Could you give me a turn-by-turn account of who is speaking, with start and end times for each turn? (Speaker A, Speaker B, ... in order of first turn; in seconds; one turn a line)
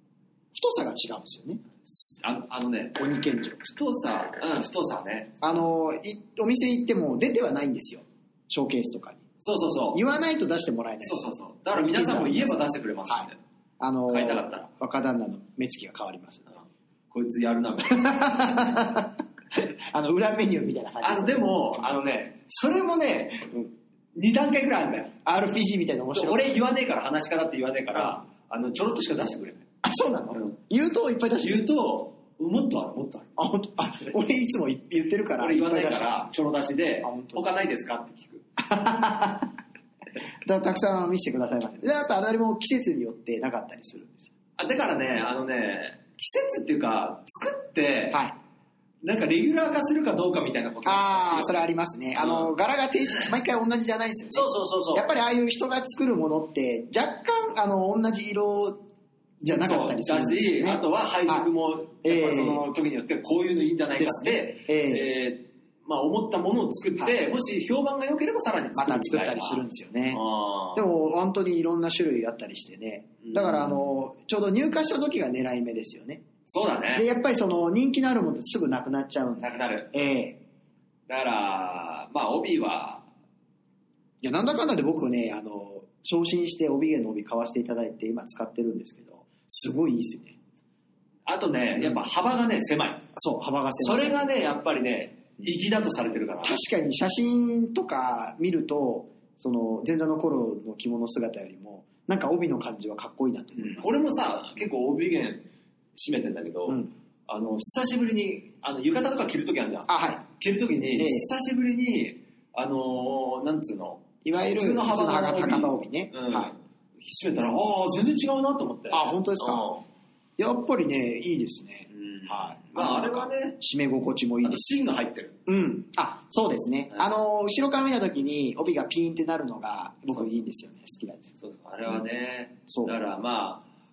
Speaker A: 0.5-1.6
Speaker B: 1.9-3.0
Speaker A: 3.0-3.7
Speaker B: 3.7-5.3
Speaker A: 5.4-9.2
Speaker B: 9.4-10.0
Speaker A: 9.9-13.3
Speaker B: 11.0-13.4
Speaker A: 13.8-16.5
Speaker B: 14.1-14.7
Speaker B: 17.1-18.5
Speaker A: 17.9-21.6
Speaker B: 21.0-23.5
Speaker B: 24.1-25.1
Speaker A: 25.2-26.5
Speaker B: 26.1-29.6
Speaker A: 29.8-31.6
Speaker B: 31.4-33.3
Speaker A: 33.4-36.3
Speaker B: 35.4-38.4
Speaker A: 37.0-37.5
Speaker A: 38.6-39.5
Speaker A: 40.5-44.3
Speaker B: 44.6-48.2
Speaker B: 49.0-51.7
Speaker A: 50.9-58.8
Speaker B: 52.2-52.5
Speaker B: 54.3-55.1
Speaker A: 59.4-61.5
Speaker B: 59.6-70.9
Speaker A: 62.0-62.6
Speaker A: 64.0-65.1
Speaker A: 68.8-70.2
Speaker A: 70.8-76.2
Speaker B: 73.2-73.8
Speaker B: 76.5-77.1
Speaker A: 77.0-80.4
Speaker B: 79.4-79.9
Speaker B: 81.1-83.1
Speaker A: 84.2-90.3
Speaker B: 91.3-93.0
Speaker A: 93.2-94.3
Speaker B: 93.8-96.6
Speaker A: 96.4-104.0
Speaker B: 103.5-119.8
Speaker A: 109.9-110.3
Speaker A: 111.0-111.3
Speaker A: 114.2-116.5
Speaker A: 118.9-119.7
Speaker A: 120.4-124.7
Speaker B: 121.9-123.6
Speaker B: 124.4-125.4
Speaker A: 125.5-131.4
Speaker B: 131.4-133.7
Speaker A: 132.7-132.9